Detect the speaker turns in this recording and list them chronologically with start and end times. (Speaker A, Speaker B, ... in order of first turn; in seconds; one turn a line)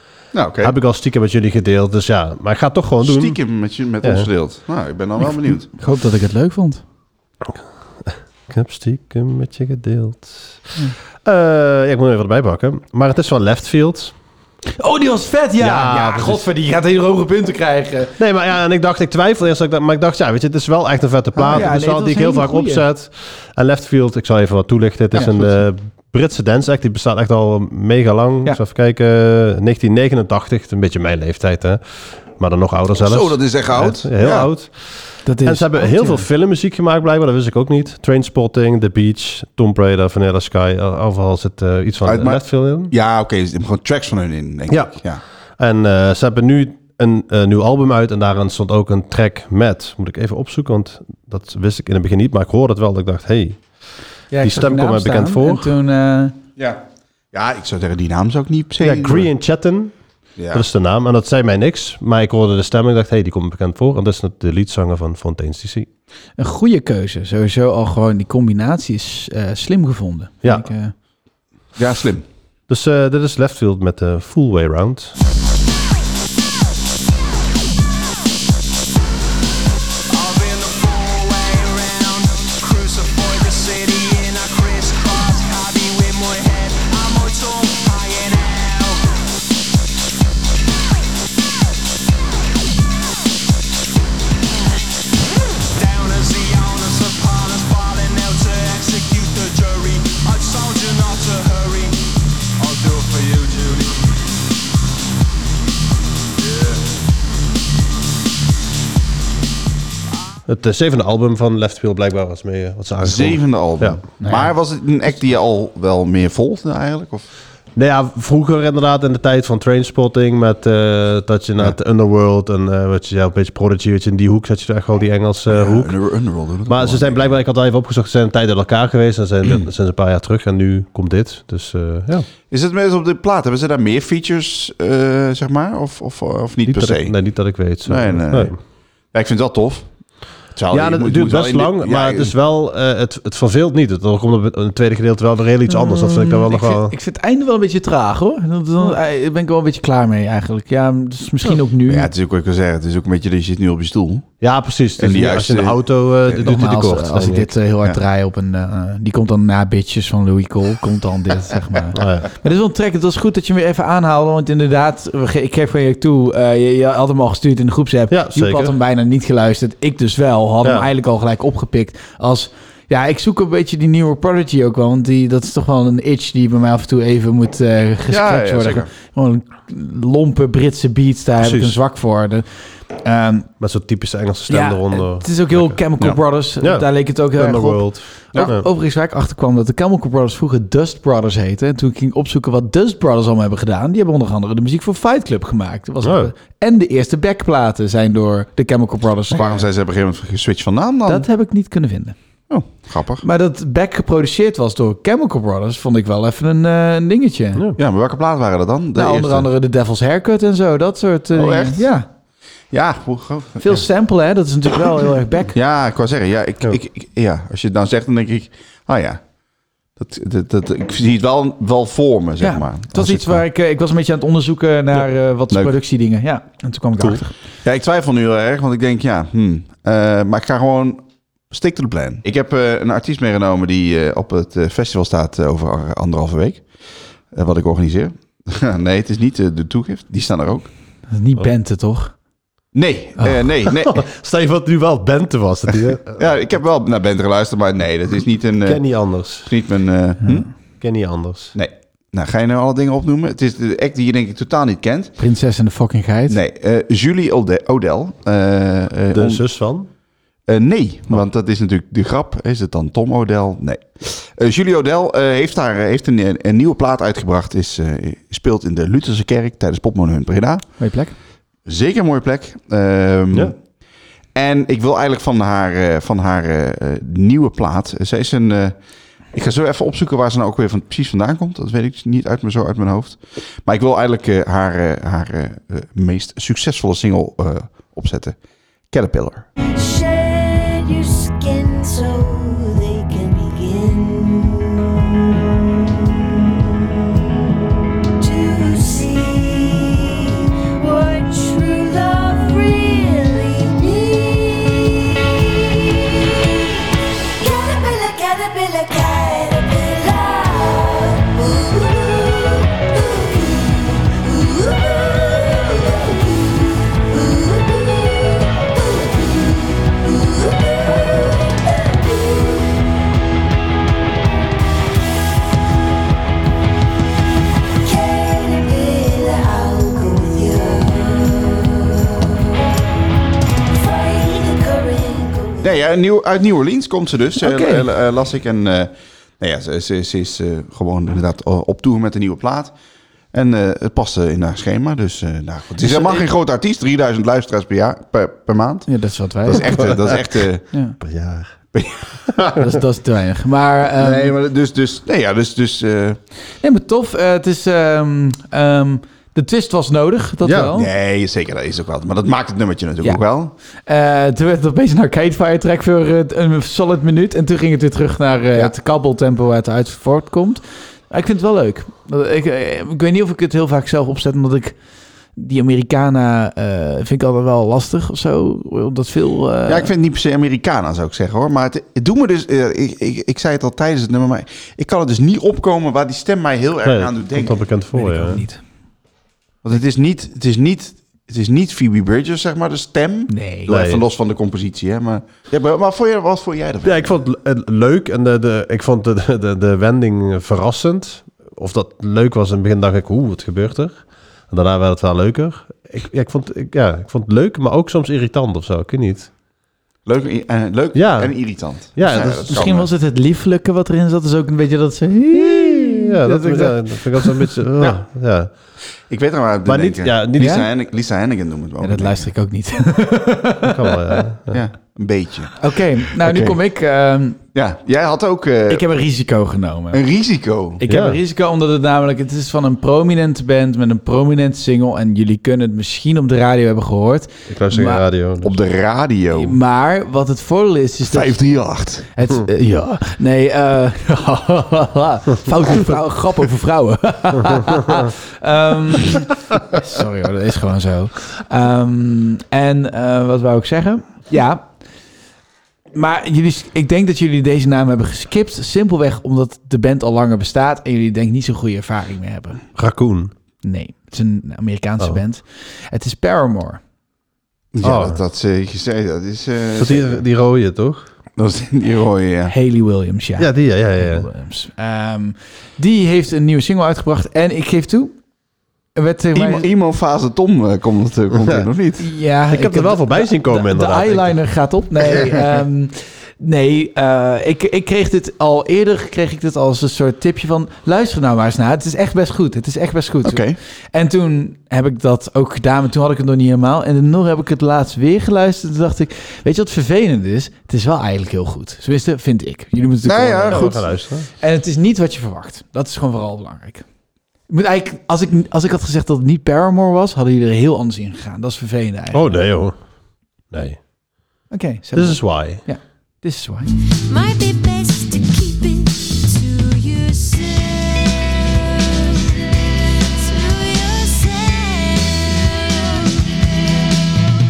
Speaker A: 0.3-0.7
Speaker B: 0.6-3.4
Speaker A: 3.0-5.7
Speaker B: 4.0-4.3
Speaker C: 5.8-6.8
Speaker B: 8.0-14.1
Speaker C: 14.8-18.1
Speaker B: 15.6-16.5
Speaker B: 18.2-31.8
Speaker A: 21.4-21.7
Speaker C: 21.5-22.8
Speaker A: 25.1-25.5
Speaker B: 32.4-42.9
Speaker A: 33.0-34.5
Speaker C: 35.3-36.2
Speaker A: 42.0-45.2
Speaker B: 45.6-53.6
Speaker C: 54.3-56.4
Speaker B: 54.4-55.7
Speaker A: 57.3-59.3
Speaker B: 58.8-59.9
Speaker A: 60.4-60.7
Speaker B: 60.5-65.9
Speaker C: 66.4-70.9
Speaker A: 71.8-72.2
Speaker B: 72.7-75.2
Speaker D: 80.1-89.1
Speaker D: 95.7-102.1
Speaker D: 102.6-104.1
Speaker D: 106.4-106.8
Speaker B: 110.5-114.0
Speaker A: 113.0-117.3
Speaker C: 114.2-114.5
Speaker B: 117.8-126.0
Speaker A: 125.5-127.3
Speaker B: 126.7-132.3
Speaker A: 132.5-138.6
Speaker B: 136.7-138.6
Speaker A: 139.1-139.9
Speaker A: 140.6-142.3
Speaker B: 140.7-146.9
Speaker C: 145.7-152.1
Speaker A: 151.9-154.3
Speaker B: 154.4-157.5
Speaker A: 155.0-156.4
Speaker C: 156.4-183.5
Speaker B: 161.9-162.3
Speaker B: 168.1-168.8
Speaker B: 170.6-170.9
Speaker A: 178.1-178.9
Speaker B: 181.4-181.8
Speaker B: 183.6-185.8
Speaker C: 184.5-199.6
Speaker B: 186.6-188.7
Speaker B: 196.0-196.3
Speaker A: 199.3-201.3
Speaker C: 201.1-202.2
Speaker A: 202.5-203.2
Speaker C: 203.2-207.7
Speaker A: 207.8-209.5
Speaker C: 209.0-212.1
Speaker A: 211.3-211.9
Speaker A: 212.7-213.9
Speaker C: 213.6-215.5
Speaker A: 215.5-219.2
Speaker A: 220.0-223.4
Speaker C: 222.4-227.3
Speaker A: 227.6-236.6
Speaker A: 237.3-240.7
Speaker C: 241.1-242.2
Speaker A: 242.7-244.1
Speaker B: 243.7-246.2
Speaker A: 246.1-250.5
Speaker B: 248.7-249.5
Speaker B: 250.8-251.6
Speaker A: 251.6-255.2
Speaker C: 255.2-256.4
Speaker A: 256.3-259.4
Speaker B: 259.1-259.9
Speaker A: 260.5-270.7
Speaker C: 270.8-271.1
Speaker A: 271.7-273.6
Speaker A: 274.4-278.8
Speaker A: 279.3-288.4
Speaker A: 288.9-289.5
Speaker E: 289.8-296.6
Speaker E: 298.2-322.9
Speaker E: 327.8-332.7
Speaker E: 333.7-335.8
Speaker A: 335.6-342.7
Speaker C: 337.4-337.9
Speaker A: 343.3-348.9
Speaker C: 345.8-346.3
Speaker C: 348.9-349.9
Speaker A: 349.4-350.7
Speaker B: 351.0-351.5
Speaker A: 351.7-352.5
Speaker C: 352.6-354.3
Speaker A: 354.0-356.2
Speaker C: 356.6-360.9
Speaker B: 360.4-360.7
Speaker A: 360.8-363.5
Speaker C: 363.9-374.8
Speaker C: 375.4-379.9
Speaker A: 379.7-387.6
Speaker B: 386.8-388.4
Speaker C: 387.9-388.6
Speaker A: 389.6-397.2
Speaker C: 393.3-393.7
Speaker B: 393.7-394.1
Speaker B: 396.8-409.3
Speaker A: 410.1-412.9
Speaker B: 410.9-412.6
Speaker C: 412.5-417.4
Speaker B: 415.6-418.5
Speaker A: 419.1-422.3
Speaker B: 419.6-420.6
Speaker C: 420.4-420.7
Speaker C: 421.8-424.2
Speaker B: 423.6-424.6
Speaker A: 424.5-425.6
Speaker C: 425.6-427.4
Speaker A: 426.2-426.6
Speaker A: 427.5-428.8
Speaker C: 428.7-430.0
Speaker A: 429.9-430.8
Speaker C: 430.8-438.0
Speaker B: 430.9-431.2
Speaker B: 437.5-438.6
Speaker A: 438.4-439.6
Speaker C: 439.4-441.4
Speaker A: 441.1-442.1
Speaker C: 442.1-454.8
Speaker C: 455.9-462.6
Speaker B: 462.8-463.3
Speaker C: 463.6-466.8
Speaker A: 467.7-470.2
Speaker B: 467.8-468.2
Speaker B: 469.8-471.1
Speaker A: 471.4-472.5
Speaker C: 472.5-478.2
Speaker B: 473.4-474.3
Speaker C: 478.9-479.7
Speaker A: 479.4-482.1
Speaker C: 482.0-503.9
Speaker B: 482.5-484.4
Speaker A: 493.2-493.6
Speaker A: 503.0-503.8
Speaker B: 503.5-504.3
Speaker C: 504.4-506.9
Speaker C: 507.5-512.3
Speaker B: 512.1-512.8
Speaker B: 513.5-513.8
Speaker C: 514.5-516.7
Speaker B: 514.9-515.6
Speaker E: 517.0-527.0